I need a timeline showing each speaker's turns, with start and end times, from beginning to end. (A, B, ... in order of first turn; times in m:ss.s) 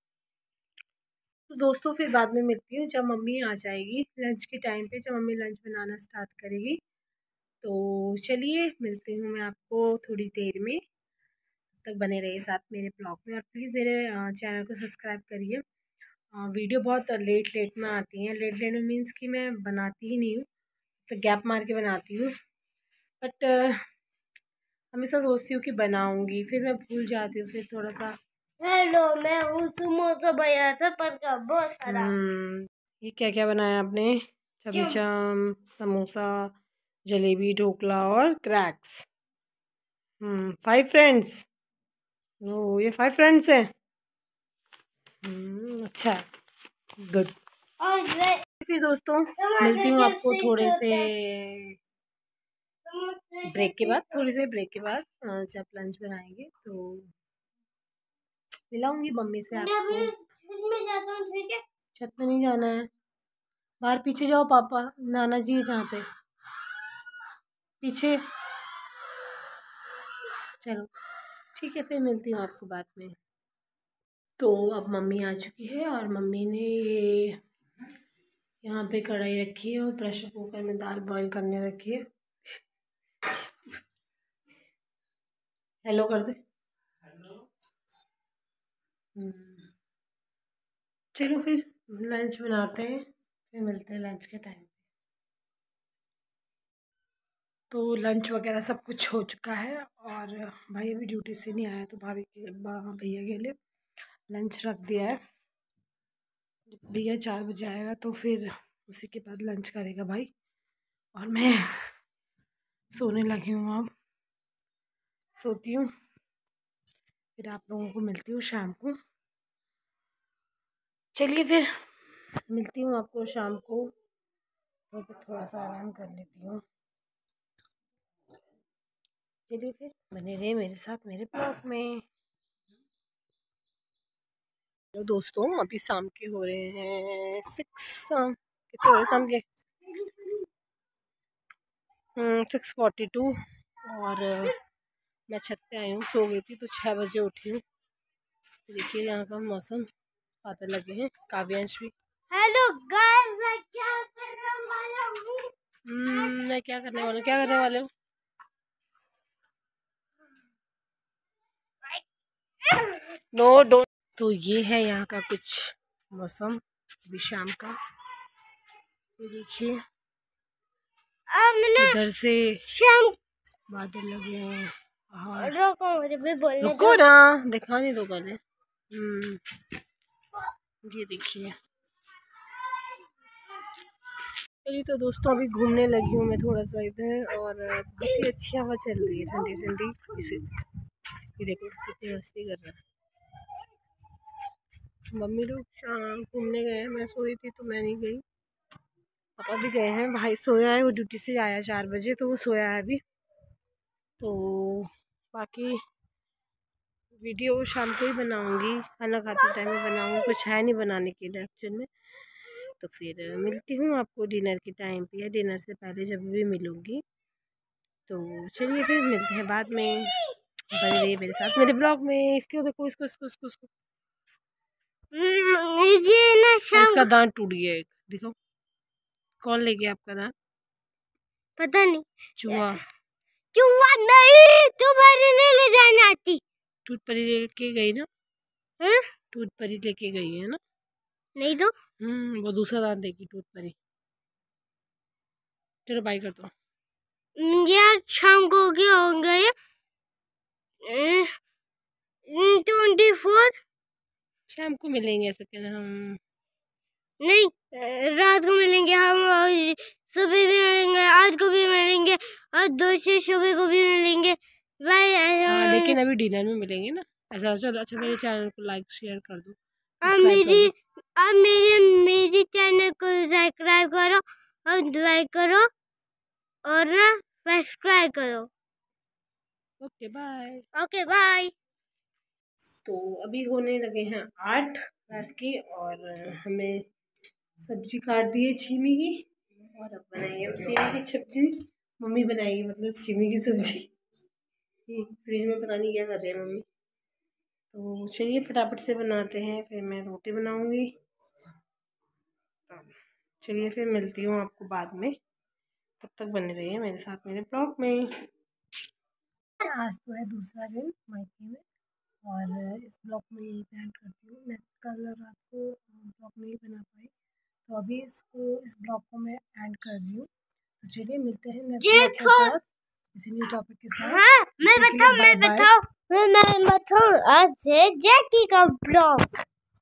0:01.5-0:06.8 A
0:07.6-0:10.8 A
0:11.8-0:15.6 A
0:16.4-0:20.4 A
0:21.1-0:22.3 A
0:23.2-0:23.8 A
0:24.9-0:28.1 A
0:28.6-0:32.1 B
0:31.8-0:36.5 A
0:37.1-0:39.0 A
0:40.2-0:41.4 A
0:42.4-0:43.7 A
0:45.2-0:46.2 A
0:47.0-0:47.3 A
0:47.8-0:48.4 B
0:48.6-0:51.8 A
0:49.3-0:51.1 B
0:52.8-0:54.2 B
0:53.4-0:57.1 A
0:58.7-1:00.1 A
0:59.5-1:01.6 B
1:02.0-1:02.9 A
1:03.8-1:06.0 A
1:07.8-1:08.2 A
1:10.6-1:10.9 A
1:11.5-1:13.1 A
1:14.4-1:17.4 A
1:18.6-1:22.0 A
1:25.8-1:26.4 A
1:29.2-1:29.6 A
1:31.1-1:34.7 A
1:37.7-1:43.6 A
1:44.3-1:45.2 A
1:46.7-1:50.3 A
1:51.1-1:51.8 A
1:52.9-1:53.9 A
1:55.4-1:55.9 A
1:57.4-1:59.0 A
2:01.1-2:01.7 A
2:02.5-2:03.9 A
2:04.9-2:06.6 A
2:09.5-2:12.0 A
2:14.9-2:19.4 A
2:22.2-2:24.6 A
2:25.3-2:27.6 A
2:28.7-2:29.9 A
2:30.4-2:31.9 A
2:32.3-2:35.5 B
2:35.8-2:37.9 A
2:37.1-2:37.5 B
2:42.6-2:43.1 B
2:43.3-2:47.8 A
2:49.2-2:49.8 A
2:51.3-2:52.0 B
2:51.8-2:52.6 A
2:52.7-2:53.2 B
2:53.7-2:55.5 A
2:55.4-2:57.0 B
2:56.6-2:58.4 A
2:58.9-2:59.4 A
3:00.8-3:01.5 A
3:04.6-3:10.6 A
3:11.4-3:12.8 A
3:15.1-3:18.2 A
3:19.4-3:23.0 A
3:24.2-3:25.8 A
3:27.2-3:31.9 A
3:32.6-3:37.0 A
3:38.1-3:40.2 A
3:40.7-3:43.7 A
3:45.1-3:47.0 B
3:46.7-3:48.3 A
3:49.4-3:50.3 A
3:51.6-3:52.6 B
3:52.4-3:52.8 A
3:53.5-3:56.4 B
3:56.8-3:58.1 A
3:58.8-3:59.1 B
3:59.3-4:00.6 A
4:01.4-4:01.7 B
4:02.0-4:03.8 A
4:05.8-4:06.5 A
4:07.4-4:09.5 B
4:10.8-4:11.3 B
4:12.3-4:13.6 B
4:14.5-4:16.2 A
4:17.2-4:25.9 B
4:25.4-4:30.7 A
4:30.0-4:35.7 B
4:36.6-4:38.5 B
4:39.8-4:40.6 A
4:40.7-4:41.5 B
4:42.8-4:46.8 A
4:47.6-4:49.2 A
4:49.7-4:53.9 A
4:54.9-4:56.6 A
4:57.7-5:00.9 A
5:03.4-5:05.1 A
5:06.0-5:08.1 A
5:09.6-5:11.6 A
5:12.2-5:17.1 A
5:17.6-5:20.3 A
5:20.8-5:22.6 A
5:21.8-5:22.5 B
5:23.1-5:25.7 A
5:24.0-5:29.3 B